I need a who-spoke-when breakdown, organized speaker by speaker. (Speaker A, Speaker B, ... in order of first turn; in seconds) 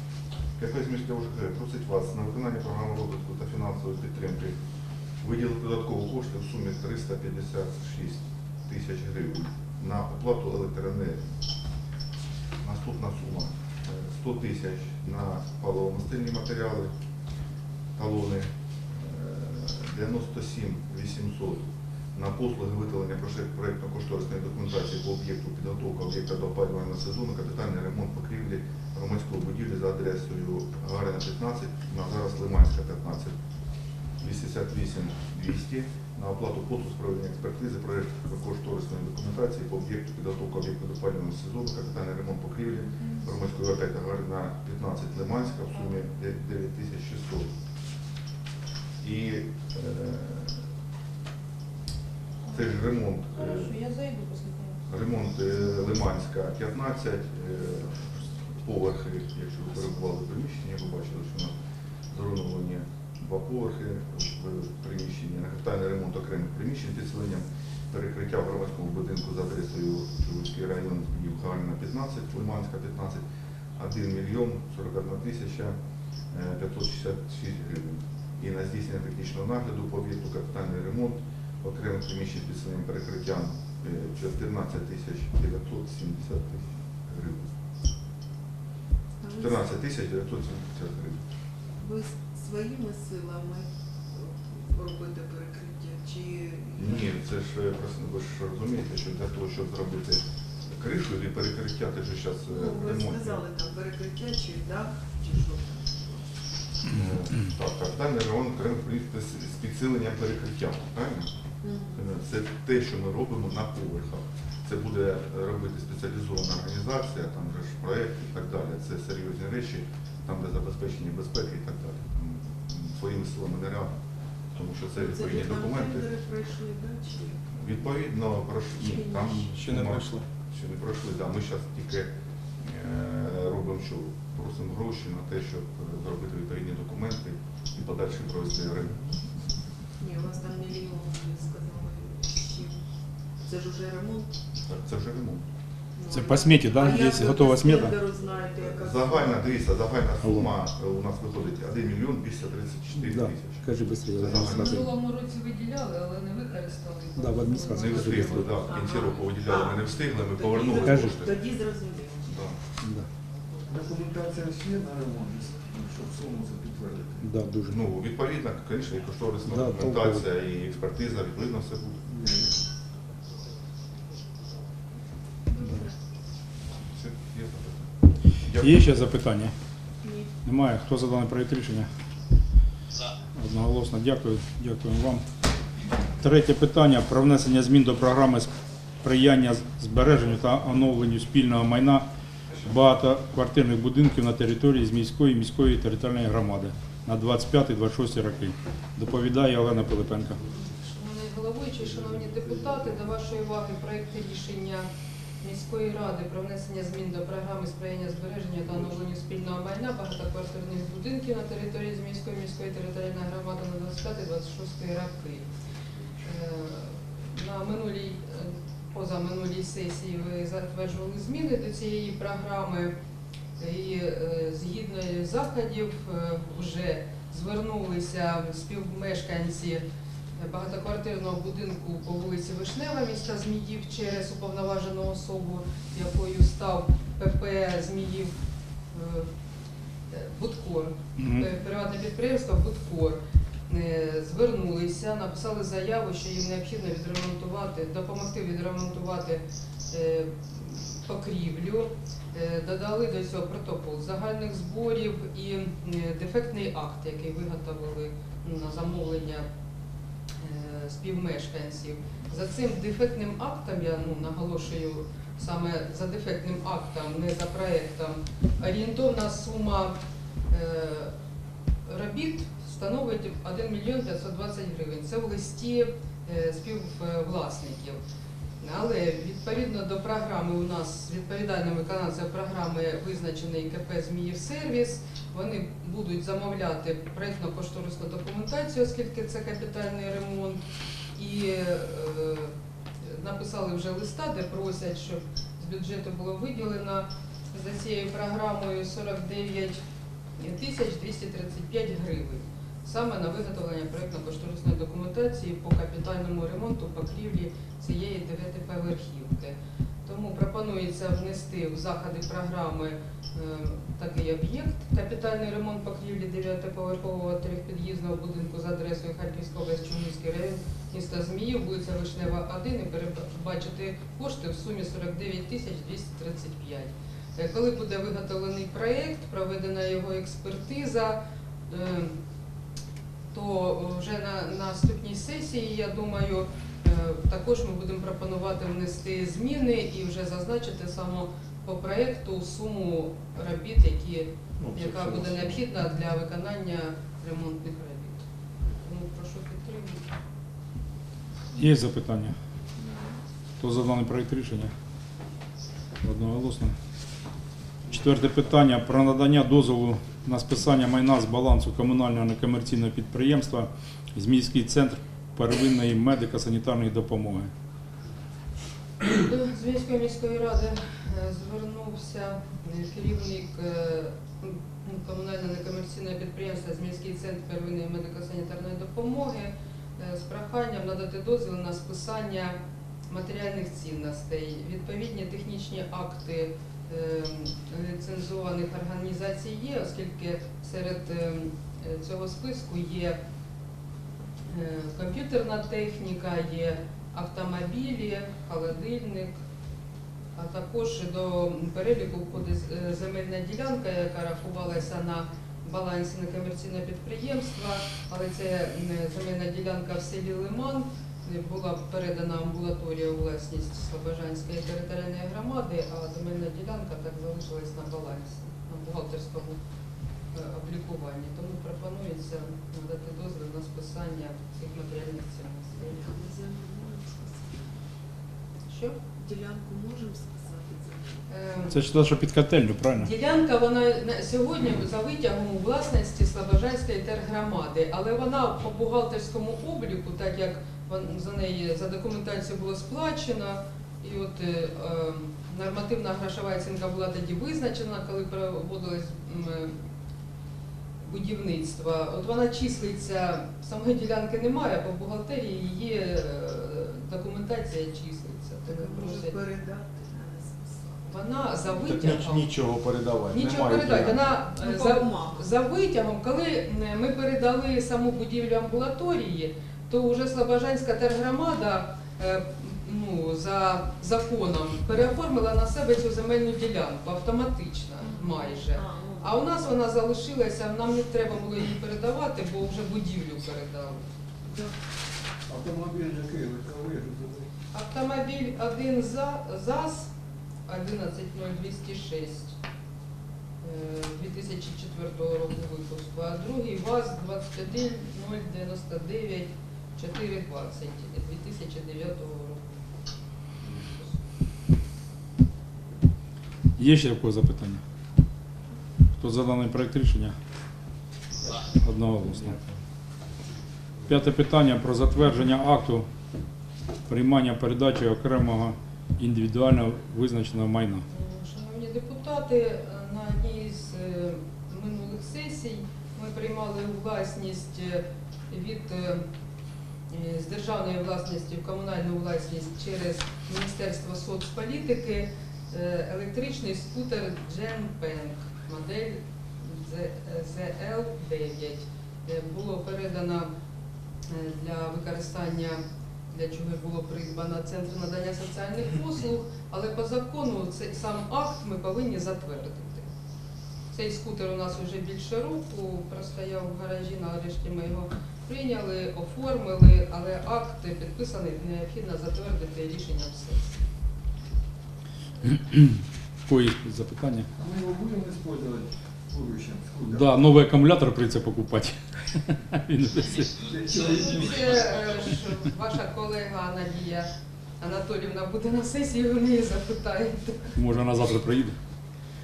Speaker A: 0.6-4.5, 5.2-11.2, 12.6-16.9, 18.0-33.3, 34.2-47.5, 49.0-50.6, 52.5-53.7, 54.9-61.5, 62.1-73.2, 73.8-75.8, 76.3-87.5, 89.4-91.2, 96.8-103.4, 106.9-111.3, 112.0-124.0, 124.5-126.1, 127.5-132.1, 132.6-139.0, 144.7-145.4, 148.7-153.7, 154.2-154.9, 157.7-161.3, 162.3-162.6, 167.7-172.0, 176.9-179.0
Speaker B: 53.3-54.8, 154.3-158.5, 200.5-204.9, 205.4-215.5, 216.2-222.9, 223.6-229.8, 230.4-238.3, 238.9-239.3, 240.1-259.5, 260.4-269.9, 270.5-271.1, 271.9-278.0, 278.6-290.6, 291.1-292.5, 293.1-299.8, 300.4-332.1, 333.3-348.2, 348.8-350.0, 369.1-382.6, 383.1-393.2, 394.5-399.3, 400.4-419.6, 420.3-426.1, 428.7-429.0, 431.3-431.9, 432.9-449.8, 451.0-459.4, 461.1-462.5, 463.3-484.0, 487.7-490.1, 490.7-492.6, 493.6-502.8, 503.7-504.2, 521.1-529.3, 530.1-543.5, 544.3-545.8, 546.3-553.1, 553.9-563.8, 574.0-580.8
Speaker C: 89.2-89.7, 91.8-97.1, 102.5-106.3, 111.6-112.0, 125.0-127.5, 128.8-129.8, 140.0-142.8, 143.4-144.4, 146.0-149.5, 158.6-162.3, 175.5-175.9, 180.0-180.3, 352.8-353.2, 425.8-427.7, 429.2-431.2, 458.7-461.7, 464.6-465.5, 478.0-479.6, 484.5-484.7
Speaker D: 129.6-130.2, 344.6-345.6, 461.8-464.3
Speaker E: 146.1-148.0, 150.2-150.5, 152.9-154.9, 157.2-158.6, 160.8-161.2, 162.8-163.1, 167.2-167.8, 169.5-170.2, 178.6-179.5, 180.4-181.9, 183.3-185.2, 186.2-188.5, 189.0-192.1, 192.6-200.4, 241.2-241.5, 351.6-352.4, 353.6-354.7, 356.0-356.8, 357.9-367.5, 431.7-433.1, 506.8-507.8, 509.2-510.4, 511.8-512.6, 514.1-516.1, 517.1-521.0, 565.5-567.5, 570.0-573.6, 580.8-581.8
Speaker F: 163.7-167.3, 172.1-172.6, 485.5-487.5, 567.6-570.4, 573.6-574.7